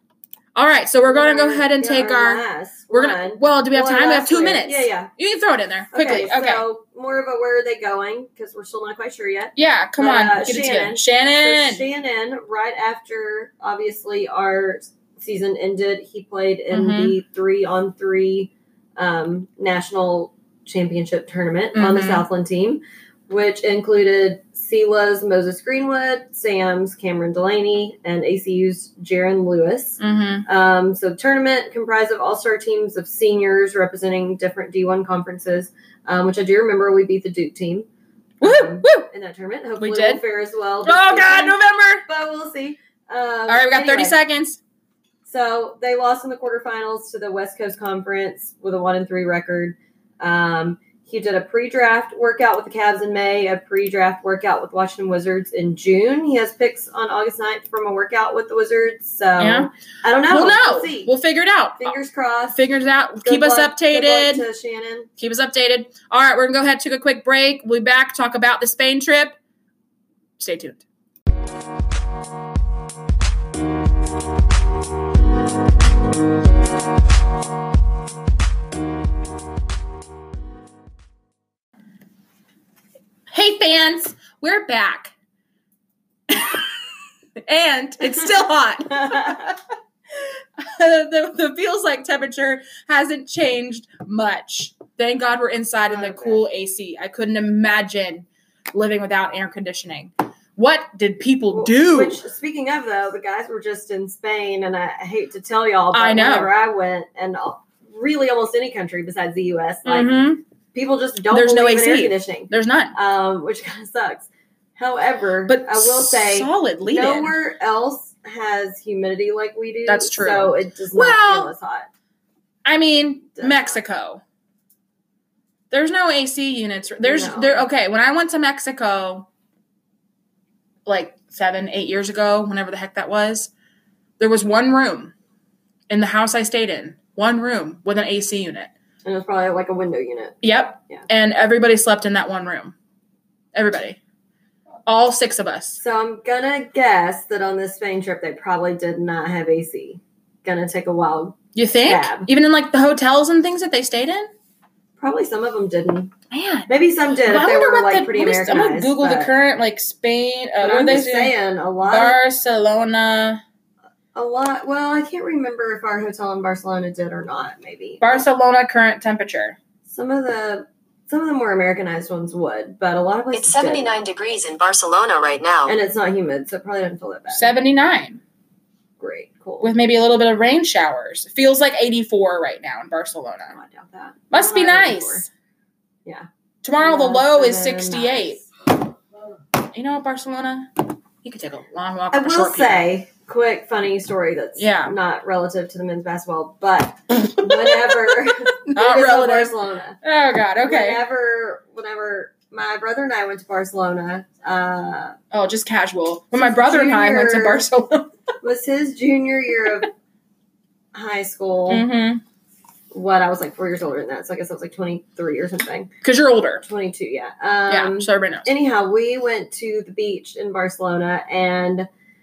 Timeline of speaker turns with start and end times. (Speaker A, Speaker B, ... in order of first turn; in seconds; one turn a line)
Speaker A: 0.5-6.6
Speaker B: 1.1-5.1
Speaker B: 5.9-37.9
Speaker A: 9.6-11.8
Speaker A: 16.7-17.1
Speaker A: 21.7-22.2
Speaker A: 30.0-30.4
Speaker A: 38.4-39.1
Speaker B: 38.4-44.1
Speaker A: 39.8-40.2
Speaker A: 40.8-42.0
Speaker A: 43.5-44.6
Speaker B: 45.2-61.1
Speaker A: 59.4-59.7
Speaker A: 60.3-61.9
Speaker B: 61.8-62.6
Speaker A: 62.5-64.5
Speaker B: 63.2-65.1
Speaker A: 65.2-69.3
Speaker A: 70.4-70.8
Speaker A: 83.3-85.1
Speaker A: 86.3-86.6
Speaker A: 87.5-89.6
Speaker B: 89.0-89.4
Speaker A: 90.6-102.2
Speaker B: 95.9-96.4
Speaker B: 101.5-121.9
Speaker A: 105.9-106.5
Speaker A: 109.8-110.4
Speaker A: 111.3-113.0
Speaker A: 115.5-117.3
Speaker A: 119.8-121.5
Speaker A: 122.6-124.2
Speaker B: 123.4-123.8
Speaker A: 125.7-129.3
Speaker B: 127.0-127.6
Speaker A: 130.8-133.5
Speaker A: 134.2-135.1
Speaker A: 135.9-138.7
Speaker B: 139.0-141.0
Speaker A: 140.4-142.7
Speaker A: 143.5-144.0
Speaker A: 144.8-145.8
Speaker B: 145.8-152.3
Speaker A: 151.5-154.3
Speaker B: 155.0-156.1
Speaker A: 156.3-156.7
Speaker B: 156.7-159.3
Speaker A: 157.2-161.3
Speaker B: 160.6-162.2
Speaker A: 161.8-163.4
Speaker B: 164.1-168.2
Speaker A: 168.0-169.6
Speaker B: 169.8-174.0
Speaker C: 173.3-175.7
Speaker B: 175.7-177.5
Speaker A: 177.3-178.2
Speaker B: 179.0-179.7
Speaker A: 179.6-183.6
Speaker B: 183.5-185.2
Speaker A: 184.3-185.3
Speaker A: 186.6-188.4
Speaker B: 186.8-188.5
Speaker A: 189.7-190.7
Speaker A: 191.2-192.8
Speaker B: 192.1-200.0
Speaker A: 194.6-194.9
Speaker A: 197.2-201.0
Speaker B: 200.6-205.2
Speaker A: 205.3-208.1
Speaker B: 206.3-207.7
Speaker B: 208.4-209.9
Speaker B: 210.9-211.8
Speaker A: 211.7-212.2
Speaker B: 212.9-215.9
Speaker A: 216.0-216.6
Speaker B: 216.6-221.9
Speaker A: 217.7-218.5